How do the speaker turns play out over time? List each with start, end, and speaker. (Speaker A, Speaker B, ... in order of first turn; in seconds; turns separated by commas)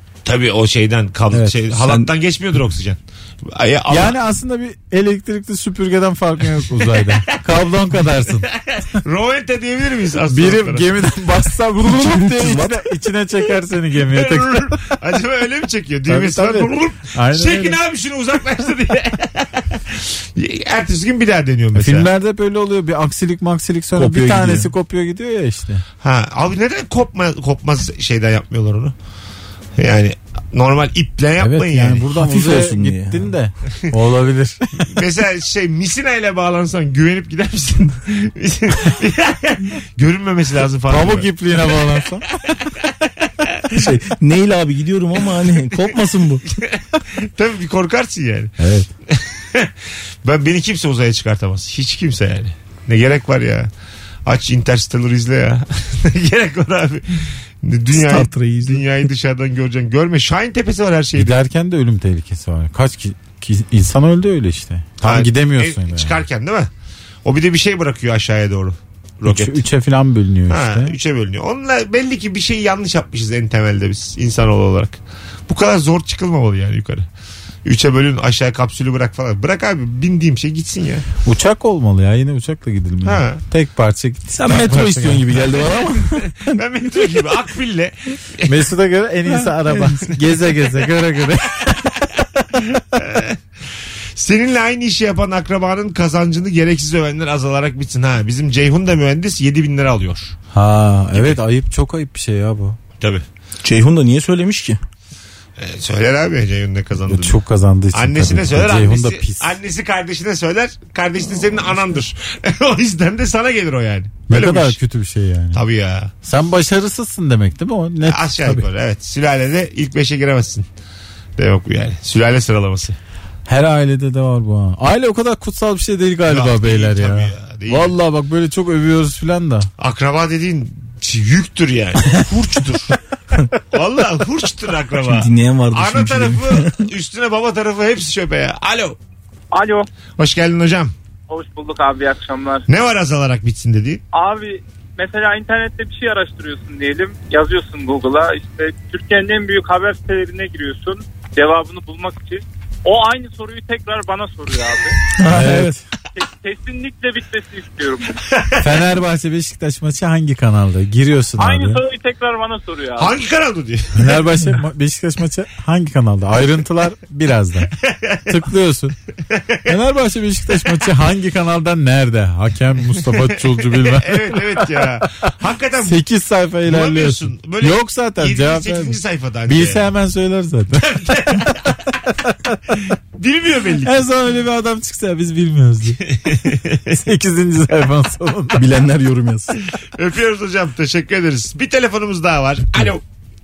Speaker A: 0.2-4.2, Speaker B: 3.9-8.5, Speaker A: 8.4-10.9, Speaker B: 10.3-15.0, Speaker C: 12.2-12.7, Speaker A: 14.1-22.1, Speaker B: 16.1-17.8, Speaker B: 21.8-25.8, Speaker C: 24.0-24.7, Speaker A: 26.0-28.9, Speaker A: 29.8-32.1, Speaker B: 31.4-34.9, Speaker C: 32.2-33.2, Speaker A: 34.9-41.3, Speaker B: 40.9-42.3, Speaker A: 42.4-42.8, Speaker C: 43.7-46.4, Speaker A: 46.6-48.5, Speaker B: 48.6-48.9, Speaker A: 49.1-49.7, Speaker A: 50.2-53.7, Speaker A: 54.3-61.4, Speaker C: 57.9-58.9, Speaker B: 61.1-66.2, Speaker A: 65.0-66.7, Speaker A: 67.2-69.6, Speaker B: 69.3-71.0, Speaker A: 70.5-77.1, Speaker A: 77.7-81.1, Speaker B: 81.2-85.3, Speaker A: 83.0-83.4, Speaker C: 84.4-86.6, Speaker A: 86.4-88.6, Speaker B: 88.5-92.5, Speaker A: 89.7-90.8, Speaker A: 92.6-93.4, Speaker A: 94.2-100.4, Speaker B: 100.5-102.8, Speaker C: 103.6-104.8, Speaker A: 105.6-107.4, Speaker B: 107.1-109.5, Speaker A: 107.9-114.8, Speaker B: 114.3-115.6, Speaker A: 115.5-116.1, Speaker B: 116.2-118.7, Speaker A: 118.0-120.7, Speaker A: 121.4-123.0, Speaker B: 123.5-129.7, Speaker A: 126.3-127.9, Speaker A: 129.8-133.0, Speaker A: 133.7-139.0, Speaker C: 135.0-136.8, Speaker D: 139.5-139.9, Speaker A: 140.2-140.9, Speaker D: 141.3-142.7, Speaker A: 142.7-144.0, Speaker D: 144.1-155.0, Speaker C: 155.2-155.8, Speaker B: 155.3-155.8, Speaker D: 156.2-158.2, Speaker B: 158.6-161.8, Speaker D: 161.4-163.2, Speaker A: 163.0-164.1, Speaker B: 163.9-167.7, Speaker A: 167.9-168.2, Speaker B: 168.3-169.0, Speaker B: 169.7-175.0, Speaker A: 173.2-176.0, Speaker B: 175.8-182.8, Speaker A: 176.7-179.9, Speaker A: 180.8-181.7, Speaker A: 183.2-184.0, Speaker B: 183.8-186.0, Speaker A: 186.1-187.0, Speaker B: 186.9-188.7, Speaker C: 188.6-189.6, Speaker A: 189.9-193.0